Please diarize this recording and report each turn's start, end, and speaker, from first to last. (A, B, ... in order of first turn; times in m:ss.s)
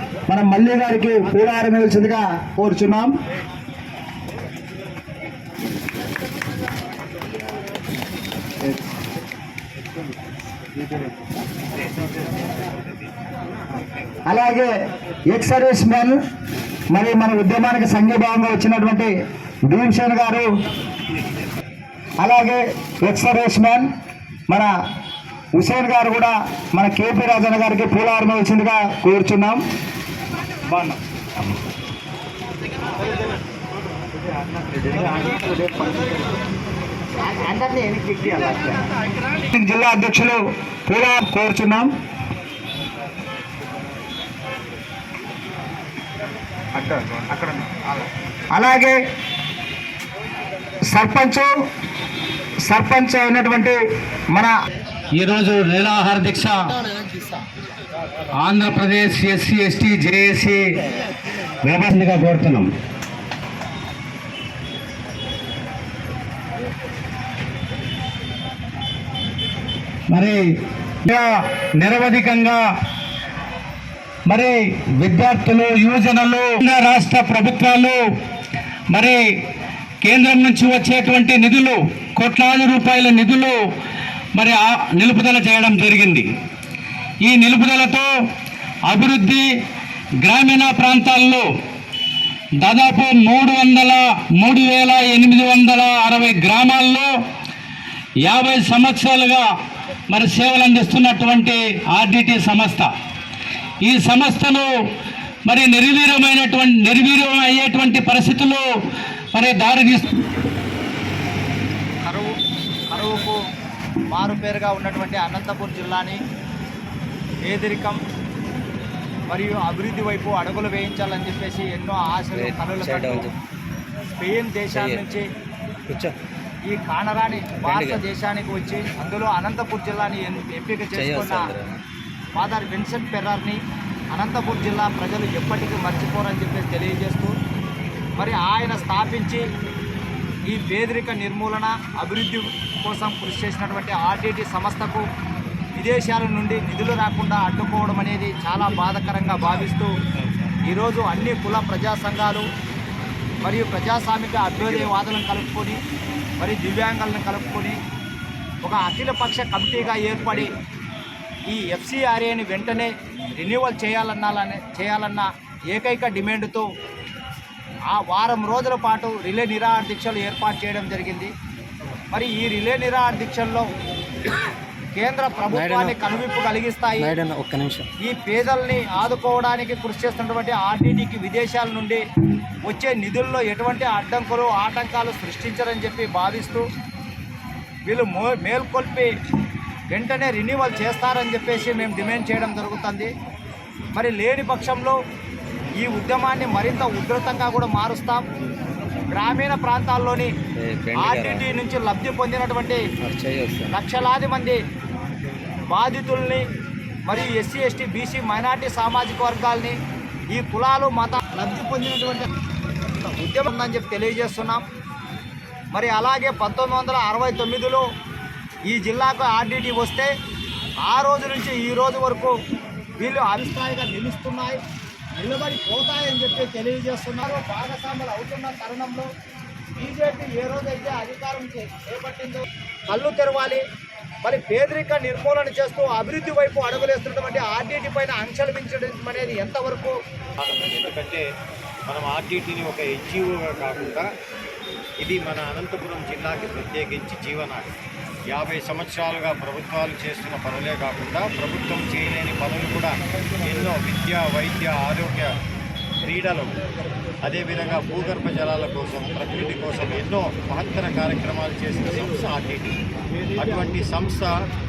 0:00.3-0:03.1 A
0:14.3-0:14.7 A
0:15.3-0:16.2 A
0:16.9-0:19.1 A
0:19.7-0:20.5 A
0:22.2-0:23.9 A
0:25.6-0:29.6 A
0:35.4-0:35.9 B
0:37.2-0:38.8 B
0:39.5-0:41.9 A
0:46.8-0:48.0 A
0:48.5-0:48.9 A
0:50.9-0:51.5 A
0:52.7-0:53.8 A
0:55.2-0:56.7 C
0:58.4-1:00.6 C
1:01.6-1:02.7 C
1:10.1-1:10.5 C
1:11.0-1:12.6 C
1:14.3-1:18.0 C
1:18.9-1:19.2 C
1:20.0-1:23.6 C
1:24.4-1:26.3 C
1:27.2-1:28.1 C
1:28.9-1:29.5 C
1:30.2-1:31.5 C
1:32.6-1:37.1 C
1:38.2-1:39.5 C
1:40.1-1:42.9 C
1:43.8-1:44.7 C
1:45.5-1:48.6 C
1:49.3-1:50.1 C
1:52.0-1:52.3 B
1:52.9-1:53.4 B
1:54.1-1:56.2 B
1:57.5-1:58.0 B
1:59.3-2:03.3 B
2:02.3-2:03.3 D
2:04.2-2:05.2 B
2:04.7-2:05.0 D
2:05.9-2:06.2 D
2:06.7-2:11.5 B
2:07.6-2:08.0 D
2:10.9-2:11.8 D
2:12.4-2:13.6 B
2:14.1-2:17.3 B
2:18.2-2:19.4 B
2:20.5-2:25.0 B
2:25.7-2:29.9 B
2:30.7-2:32.4 B
2:33.4-2:35.8 B
2:36.4-2:37.8 B
2:38.6-2:40.5 B
2:41.5-2:46.7 B
2:47.9-2:51.3 B
2:52.1-2:53.7 B
2:55.0-2:57.2 B
2:55.5-2:56.0 D
2:57.0-2:57.9 D
2:58.0-3:02.0 B
3:02.6-3:06.6 B
3:07.8-3:09.1 B
3:09.9-3:13.1 B
3:13.9-3:15.0 B
3:15.8-3:18.2 B
3:19.1-3:20.3 B
3:20.6-3:21.5 D
3:21.0-3:22.8 B
3:23.0-3:23.7 D
3:23.7-3:24.6 B
3:25.7-3:26.4 B
3:27.1-3:29.8 B
3:30.3-3:32.3 B
3:33.0-3:34.6 B
3:35.7-3:37.8 B
3:38.7-3:40.1 B
3:40.8-3:42.3 B
3:43.0-3:44.6 B
3:45.2-3:49.1 B
3:49.8-3:53.6 B
3:54.2-4:00.0 B
4:00.4-4:01.2 E
4:01.9-4:04.1 E
4:05.0-4:07.7 E
4:08.3-4:15.3 E
4:16.0-4:16.5 E
4:17.2-4:22.8 E
4:23.4-4:24.4 E